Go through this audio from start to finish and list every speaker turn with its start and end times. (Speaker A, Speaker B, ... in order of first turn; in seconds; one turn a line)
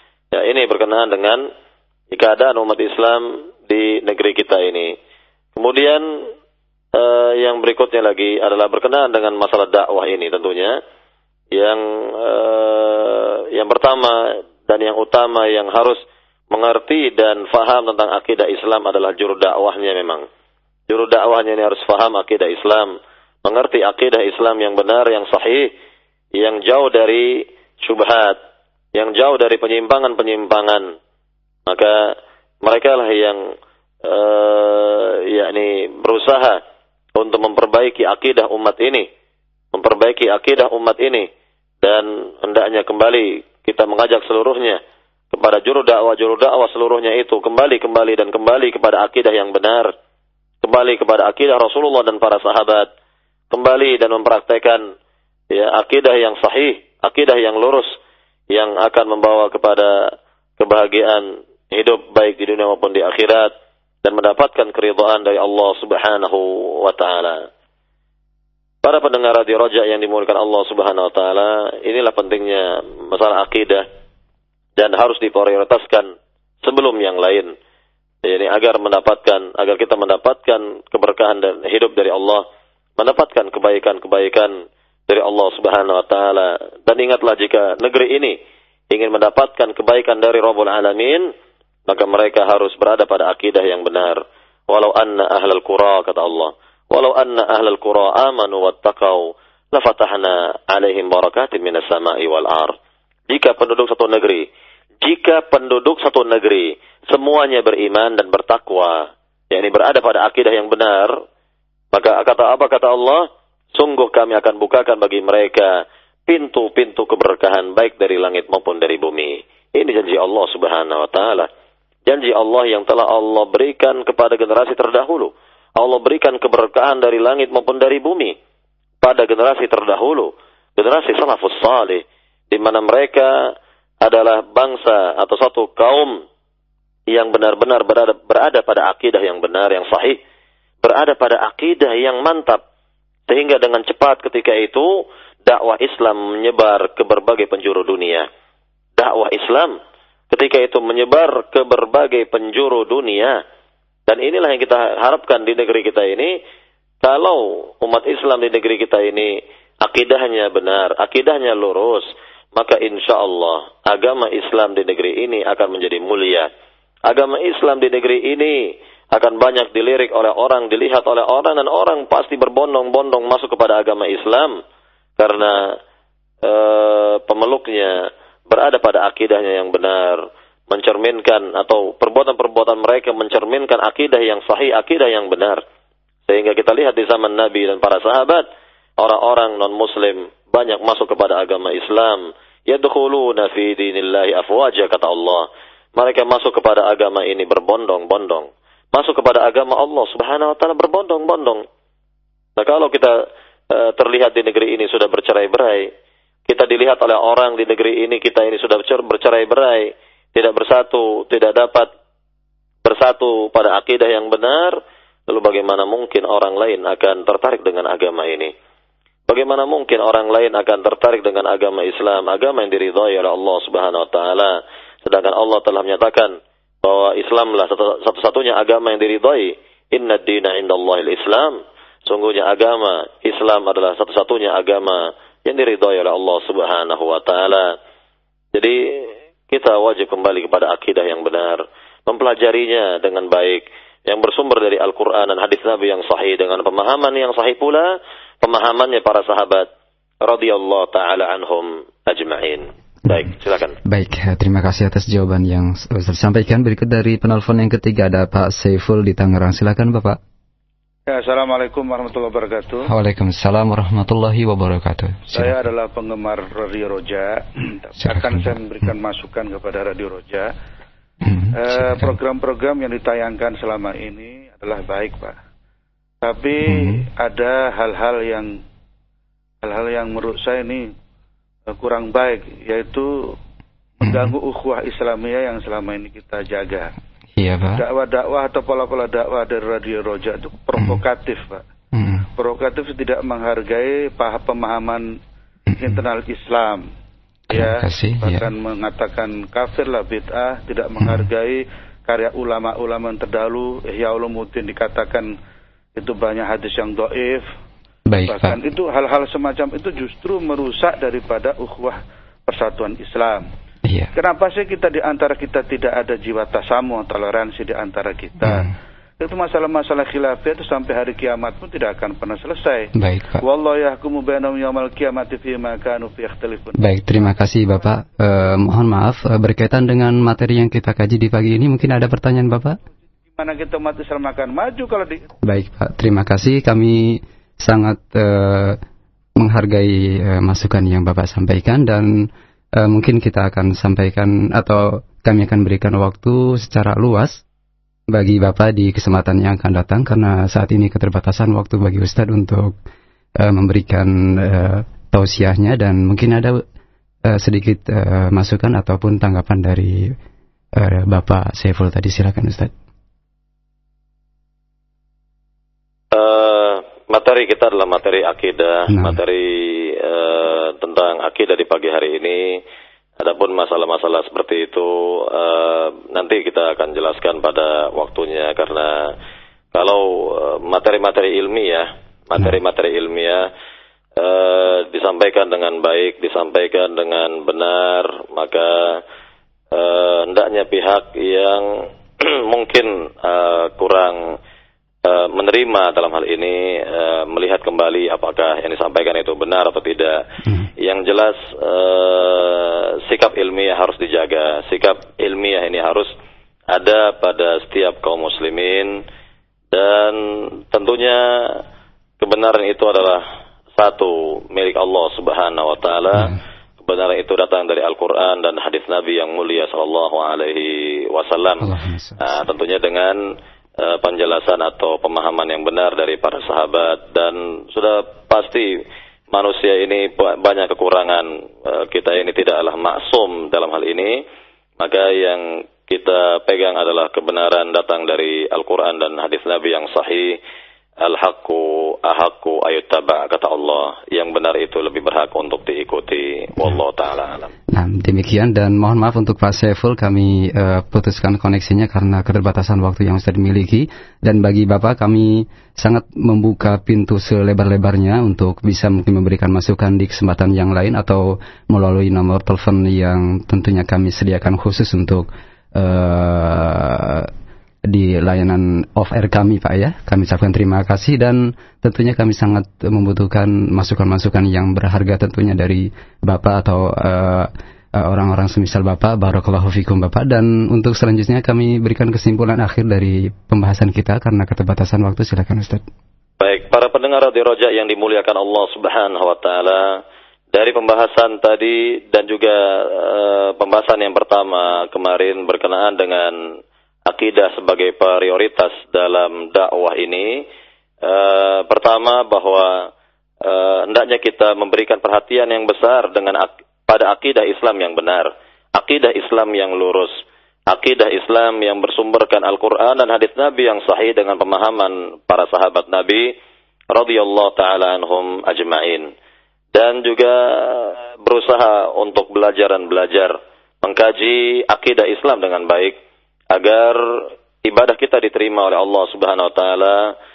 Speaker A: 0.3-1.4
Speaker A: 2.1-4.9
Speaker A: 5.6-6.0
Speaker A: 6.9-10.7
Speaker A: 11.5-16.0
Speaker A: 16.5-20.2
Speaker A: 20.9-22.9
Speaker A: 23.4-25.7
Speaker A: 26.4-27.3
Speaker A: 27.8-28.4
Speaker A: 28.9-30.8
Speaker A: 31.7-32.0
Speaker A: 32.6-33.4
Speaker A: 34.0-36.6
Speaker A: 37.2-39.1
Speaker A: 39.7-41.3
Speaker A: 41.8-44.8
Speaker A: 45.3-49.9
Speaker A: 50.6-52.9
Speaker A: 53.5-54.8
Speaker A: 55.5-57.9
Speaker A: 58.5-59.9
Speaker A: 60.6-63.5
Speaker A: 64.0-67.4
Speaker A: 68.8-73.8
Speaker A: 74.8-76.1
Speaker A: 76.6-77.5
Speaker A: 78.2-82.4
Speaker A: 83.0-84.5
Speaker A: 85.1-88.4
Speaker A: 88.9-91.3
Speaker A: 91.9-102.7
Speaker A: 103.3-104.5
Speaker A: 105.0-111.1
Speaker A: 111.9-113.2
Speaker A: 113.8-115.7
Speaker A: 116.3-121.5
Speaker A: 122.1-128.3
Speaker A: 129.0-133.3
Speaker A: 134.0-136.1
Speaker A: 137.1-140.2
Speaker A: 140.8-142.6
Speaker A: 143.3-144.9
Speaker A: 145.5-148.3
Speaker A: 149.0-149.7
Speaker A: 150.3-153.4
Speaker A: 154.1-156.3
Speaker A: 157.0-159.3
Speaker A: 159.8-162.0
Speaker A: 162.6-166.5
Speaker A: 167.1-174.5
Speaker A: 175.2-175.6
Speaker A: 176.4-177.9
Speaker A: 178.5-185.6
Speaker A: 186.3-188.4
Speaker A: 189.0-201.6
Speaker A: 202.6-203.1
Speaker A: 203.7-205.9
Speaker A: 206.5-211.9
Speaker A: 212.8-214.7
Speaker A: 215.3-218.5
Speaker A: 219.3-224.5
Speaker A: 225.1-237.7
Speaker A: 239.5-247.9
Speaker A: 248.4-249.7
Speaker A: 250.2-253.8
Speaker B: 253.9-260.2
Speaker C: 261.1-262.9
Speaker B: 262.9-265.6
Speaker C: 265.3-270.5
Speaker B: 268.0-268.9
Speaker B: 271.2-272.1
Speaker C: 271.5-275.4
Speaker C: 276.2-278.5
Speaker B: 276.7-277.1
Speaker C: 279.6-280.9
Speaker C: 281.7-283.3
Speaker C: 284.0-286.9
Speaker B: 284.0-284.3
Speaker B: 287.4-287.8
Speaker C: 287.8-291.6
Speaker B: 290.8-291.0
Speaker B: 291.9-292.3
Speaker C: 292.4-295.1
Speaker B: 295.7-296.0
Speaker C: 295.8-296.8
Speaker C: 297.5-305.3
Speaker B: 297.5-298.5
Speaker B: 301.0-301.3
Speaker C: 306.0-307.4
Speaker B: 308.1-308.6
Speaker C: 308.3-313.4
Speaker B: 313.9-314.1
Speaker C: 314.1-326.9
Speaker B: 318.4-318.7
Speaker B: 323.0-323.4
Speaker B: 326.8-332.8
Speaker C: 333.4-335.2
Speaker B: 335.4-338.8
Speaker B: 339.4-347.4
Speaker B: 348.1-352.7
Speaker B: 353.4-356.6
Speaker B: 357.3-360.1
Speaker B: 360.8-362.7
Speaker A: 366.1-372.6
Speaker B: 368.9-369.2
Speaker A: 373.2-379.1
Speaker A: 379.7-383.5
Speaker A: 384.2-389.0
Speaker A: 389.7-391.7
Speaker A: 392.2-394.3
Speaker A: 395.1-400.2
Speaker A: 400.8-406.1
Speaker A: 406.7-409.0
Speaker A: 409.7-411.6
Speaker A: 412.2-413.2
Speaker A: 413.8-421.7
Speaker B: 421.6-422.4
Speaker A: 422.2-423.2
Speaker A: 423.8-428.7
Speaker A: 429.3-434.2
Speaker A: 434.8-440.4
Speaker A: 441.0-447.5
Speaker B: 447.7-467.3
Speaker B: 467.9-485.8
Speaker A: 486.4-489.9
Speaker A: 490.5-496.4
Speaker A: 497.1-500.4
Speaker A: 501.1-502.9
Speaker A: 503.4-510.1
Speaker A: 510.7-516.3
Speaker A: 516.9-519.1
Speaker A: 519.8-523.3
Speaker A: 523.8-526.0
Speaker A: 526.5-527.0
Speaker A: 527.6-530.0